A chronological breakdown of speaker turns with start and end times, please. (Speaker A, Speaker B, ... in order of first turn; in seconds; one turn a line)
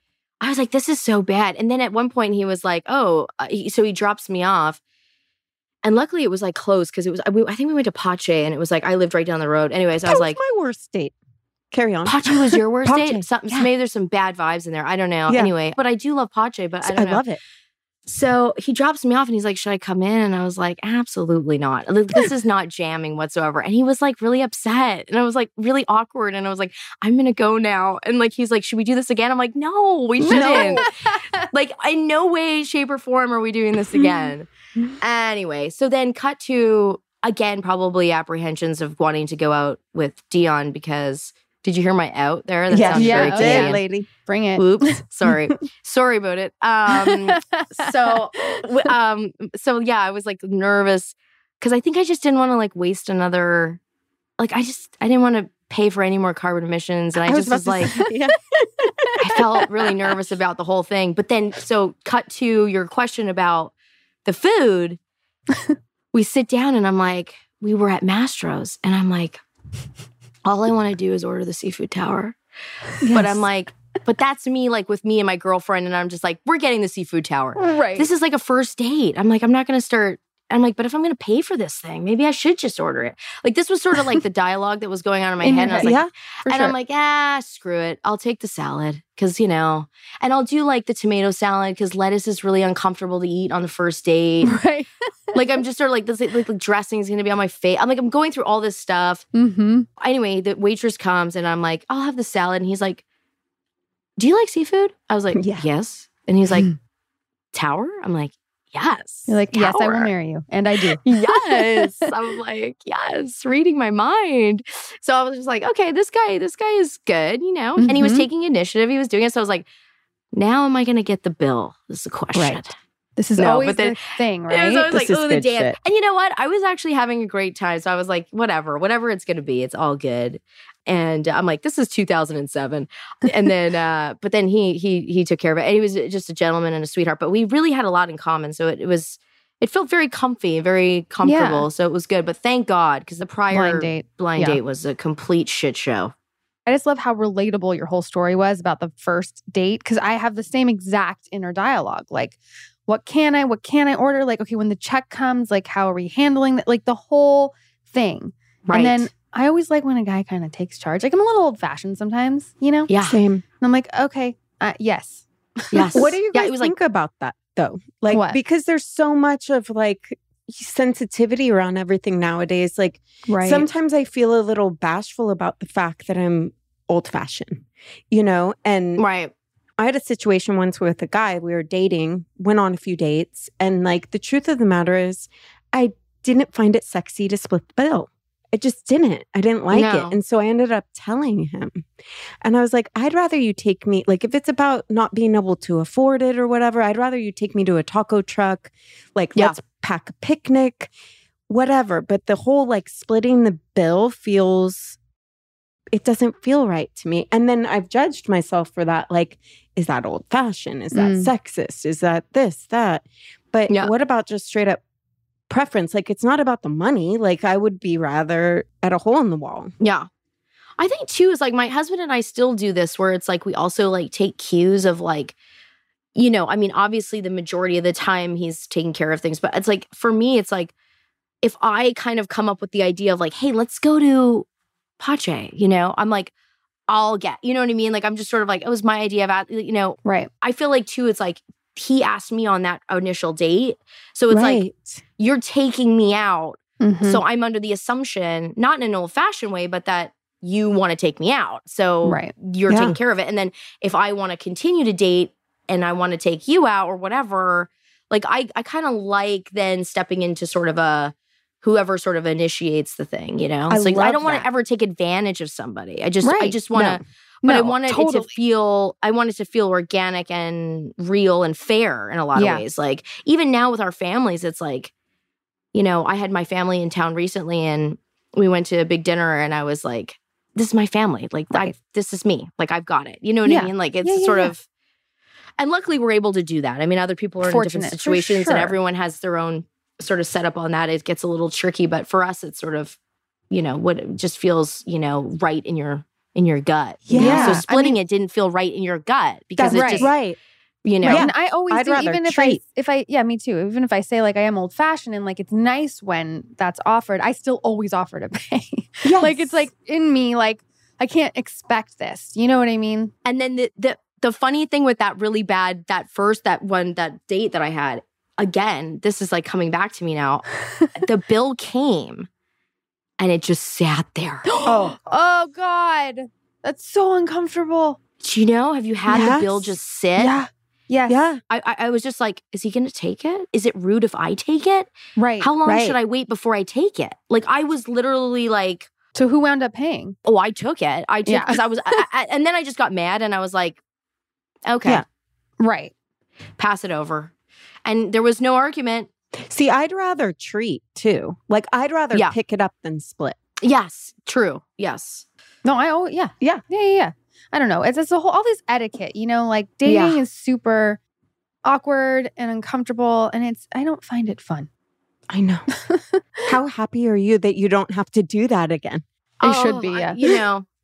Speaker A: 0.4-4.8
Speaker A: 5.8-10.4
Speaker B: 10.0-11.1
Speaker B: 11.7-13.7
Speaker A: 12.0-17.2
Speaker B: 15.3-15.5
Speaker B: 16.8-17.4
Speaker A: 18.1-30.9
Speaker C: 30.2-31.5
Speaker B: 30.2-30.9
Speaker A: 31.5-34.5
Speaker A: 35.0-43.8
Speaker B: 42.7-44.1
Speaker C: 42.9-45.0
Speaker A: 44.5-53.8
Speaker C: 46.9-48.6
Speaker A: 54.4-58.0
Speaker B: 57.2-59.7
Speaker C: 57.8-58.1
Speaker C: 58.8-59.1
Speaker A: 59.2-63.7
Speaker A: 64.2-65.0
Speaker A: 66.1-69.4
Speaker A: 70.4-72.4
Speaker B: 73.0-73.4
Speaker A: 73.1-94.6
Speaker C: 77.6-78.1
Speaker C: 85.4-85.9
Speaker B: 85.7-86.7
Speaker C: 94.4-95.3
Speaker A: 95.3-99.2
Speaker C: 99.3-99.9
Speaker A: 100.0-103.0
Speaker A: 104.2-106.7
Speaker B: 105.3-105.7
Speaker A: 107.5-110.1
Speaker C: 109.3-112.1
Speaker A: 111.0-119.7
Speaker C: 117.8-118.2
Speaker A: 120.3-122.7
Speaker C: 123.2-124.9
Speaker A: 123.4-146.1
Speaker B: 124.9-125.8
Speaker C: 141.2-141.7
Speaker C: 143.5-144.6
Speaker C: 146.7-162.9
Speaker A: 158.7-159.1
Speaker A: 162.9-163.2
Speaker B: 163.0-163.4
Speaker C: 163.6-166.1
Speaker A: 165.7-166.7
Speaker B: 165.9-179.0
Speaker C: 168.1-168.4
Speaker C: 173.3-173.7
Speaker A: 179.0-179.3
Speaker B: 179.8-191.8
Speaker A: 189.7-190.1
Speaker B: 192.4-200.9
Speaker B: 201.5-205.0
Speaker B: 205.9-214.8
Speaker C: 210.9-211.3
Speaker B: 215.5-219.7
Speaker A: 219.8-220.1
Speaker A: 220.8-225.3
Speaker A: 226.1-230.7
Speaker A: 231.4-234.4
Speaker A: 235.0-236.3
Speaker A: 236.9-244.6
Speaker C: 240.0-240.3
Speaker B: 244.3-245.0
Speaker A: 245.2-274.9
Speaker C: 246.8-247.2
Speaker C: 252.0-252.3
Speaker B: 252.7-253.0
Speaker B: 263.7-264.5
Speaker C: 266.2-266.6
Speaker B: 266.7-267.0
Speaker C: 267.4-268.3
Speaker C: 272.3-272.6
Speaker A: 275.7-284.6
Speaker C: 283.4-284.5
Speaker A: 285.6-293.0
Speaker C: 287.4-288.8
Speaker A: 293.5-300.1
Speaker C: 297.1-297.9
Speaker B: 297.1-297.6
Speaker B: 299.6-300.4
Speaker C: 299.7-300.1
Speaker A: 300.8-301.3
Speaker C: 301.0-313.1
Speaker B: 301.0-302.6
Speaker B: 309.0-309.7
Speaker A: 313.2-320.4
Speaker A: 321.0-322.3
Speaker A: 323.2-324.5
Speaker C: 324.5-328.0
Speaker B: 324.6-324.9
Speaker A: 328.2-330.3
Speaker B: 329.1-329.8
Speaker C: 330.2-331.1
Speaker B: 331.1-331.4
Speaker A: 331.5-338.9
Speaker C: 335.2-335.5
Speaker B: 335.6-336.0
Speaker C: 339.1-340.1
Speaker A: 340.2-343.8
Speaker C: 341.2-342.0
Speaker A: 344.7-345.0
Speaker C: 345.6-345.9
Speaker A: 346.6-347.3
Speaker A: 347.9-349.1
Speaker B: 349.5-353.4
Speaker A: 353.6-355.2
Speaker C: 355.6-361.0
Speaker A: 359.9-360.2
Speaker C: 361.6-364.7
Speaker B: 365.3-365.7
Speaker C: 365.8-366.2
Speaker B: 366.4-369.0
Speaker A: 369.4-370.6
Speaker C: 369.4-370.2